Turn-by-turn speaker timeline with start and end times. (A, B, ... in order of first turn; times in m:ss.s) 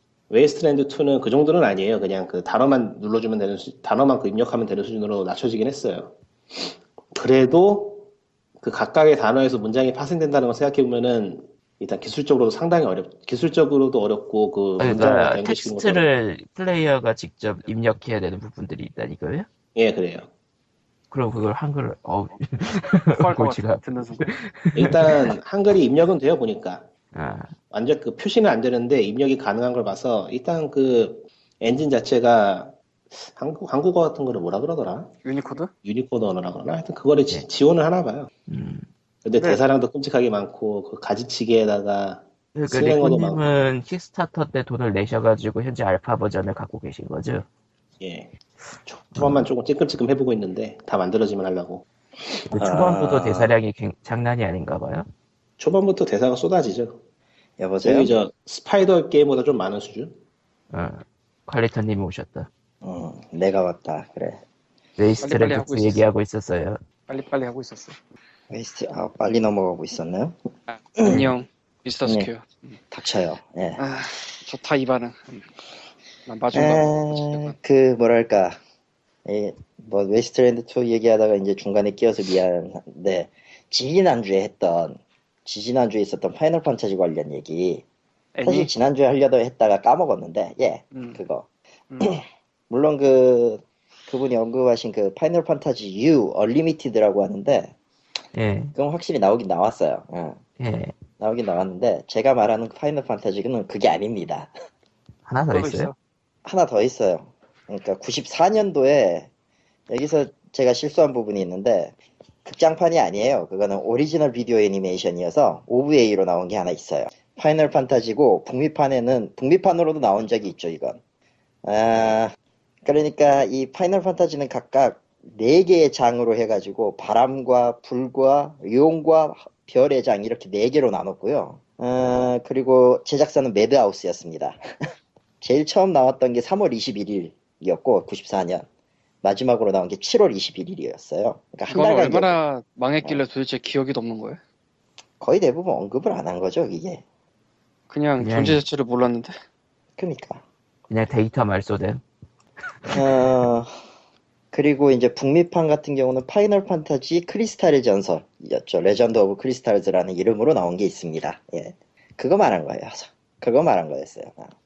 0:00.3-0:08.1 A
0:08.6-0:16.0 A
0:14.8-0:19.5 B
0:19.8-0:20.3 A
0:21.1-0:25.4 B
0:23.2-0:24.3 C
0:24.8-0:26.9 A
0:27.1-0:27.5 B
0:27.7-0:35.1 A
0:35.2-0:35.7 C
0:35.8-0:38.3 A
0:38.5-0:38.9 B
0:39.2-0:43.5 A
0:39.4-0:39.6 C
0:42.6-0:47.4 B
0:48.0-0:48.3 A
0:48.9-0:51.8 A
0:49.2-0:49.5 B
0:52.5-0:55.1 B
0:52.5-0:53.5 D
0:52.6-0:52.8 A
0:55.6-0:57.0 A
0:57.6-0:58.2 D
0:57.8-1:00.2 A
1:00.7-1:02.5 B
1:02.8-1:04.4 D
1:05.0-1:06.8 B
1:05.2-1:06.0 C
1:07.1-1:08.0 C
1:08.5-1:10.4 D
1:10.7-1:12.8 C
1:11.0-1:11.3 D
1:12.9-1:13.8 D
1:13.8-1:15.5 C
1:16.3-1:17.6 C
1:16.5-1:18.6 D
1:19.2-1:27.8 D
1:28.4-1:28.7 C
1:28.4-1:31.5 D
1:30.9-1:31.2 C
1:31.9-1:32.2 C
1:32.0-1:37.8 D
1:38.4-1:38.8 B
1:38.8-1:40.4 D
1:40.6-1:41.0 B
1:41.2-1:44.5 D
1:45.3-1:45.9 B
1:45.5-1:46.0 C
1:46.4-1:49.3 D
1:49.9-2:01.0 D
2:01.6-2:02.3 D
2:02.8-2:14.6 D
2:15.4-2:18.7 D
2:19.2-2:22.4 D
2:21.7-2:24.4 C
2:25.2-2:27.0 D
2:27.9-2:29.4 C
2:28.2-2:28.6 B
2:30.0-2:30.4 D
2:30.9-2:32.0 B
2:32.9-2:33.7 D
2:34.5-2:44.5 D